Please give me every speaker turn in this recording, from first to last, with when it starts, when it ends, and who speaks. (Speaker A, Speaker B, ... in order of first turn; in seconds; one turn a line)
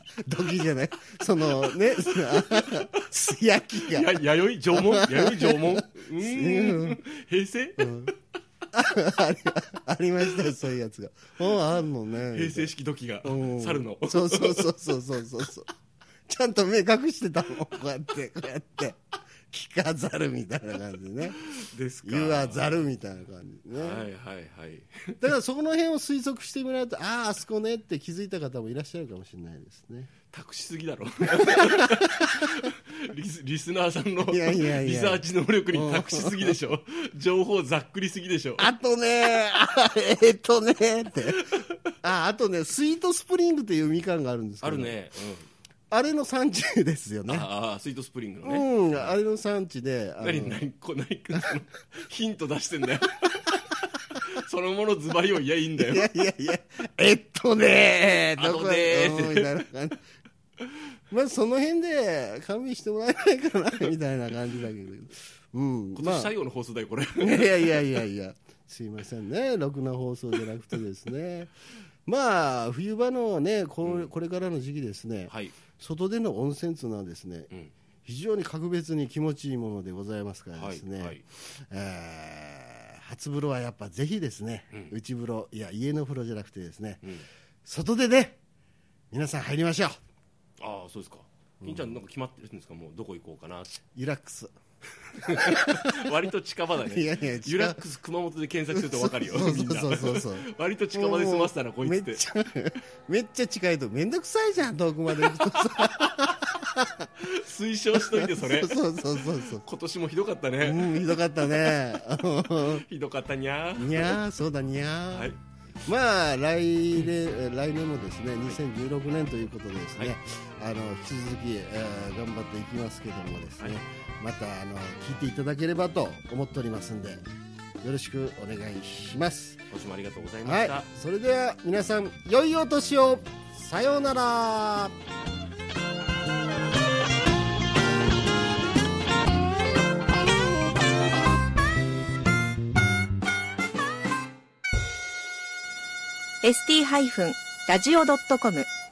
Speaker A: 0.2-7.0
Speaker B: 2.0-3.0
Speaker B: 3.8-8.2
Speaker A: 7.8-8.1
Speaker A: 8.7-12.7
Speaker B: 12.2-14.7
Speaker A: 13.2-15.7
Speaker A: 16.3-21.4
Speaker B: 21.4-22.9
Speaker A: 22.0-24.1
Speaker B: 23.7-25.3
Speaker A: 25.2-30.1
Speaker B: 30.3-38.7
Speaker A: 31.4-32.3
Speaker A: 34.3-36.6
Speaker A: 38.6-41.5
Speaker B: 41.4-41.8
Speaker A: 42.0-45.0
Speaker B: 44.6-45.5
Speaker A: 45.9-47.5
Speaker B: 47.3-49.2
Speaker A: 48.4-50.6
Speaker B: 50.2-56.1
Speaker A: 55.8-60.0
Speaker B: 58.4-59.6
Speaker A: 61.1-66.3
Speaker B: 66.0-68.0
Speaker A: 67.2-71.5
Speaker A: 72.1-77.5
Speaker B: 73.8-74.1
Speaker B: 75.3-75.6
Speaker A: 78.0-87.0
Speaker B: 80.5-81.2
Speaker A: 87.7-88.4
Speaker A: 89.1-90.0
Speaker B: 90.6-93.8
Speaker A: 91.6-92.0
Speaker A: 94.0-94.5
Speaker B: 95.2-102.2
Speaker A: 95.2-96.2
Speaker A: 96.8-97.8
Speaker A: 98.7-107.1
Speaker B: 105.2-106.4
Speaker B: 107.2-108.8
Speaker A: 107.9-109.7
Speaker B: 109.5-114.2
Speaker A: 110.6-112.8
Speaker A: 113.8-115.3
Speaker B: 115.1-115.4
Speaker A: 115.9-127.2
Speaker A: 127.8-129.6
Speaker B: 129.7-130.9
Speaker A: 130.4-134.9
Speaker C: 146.4-148.7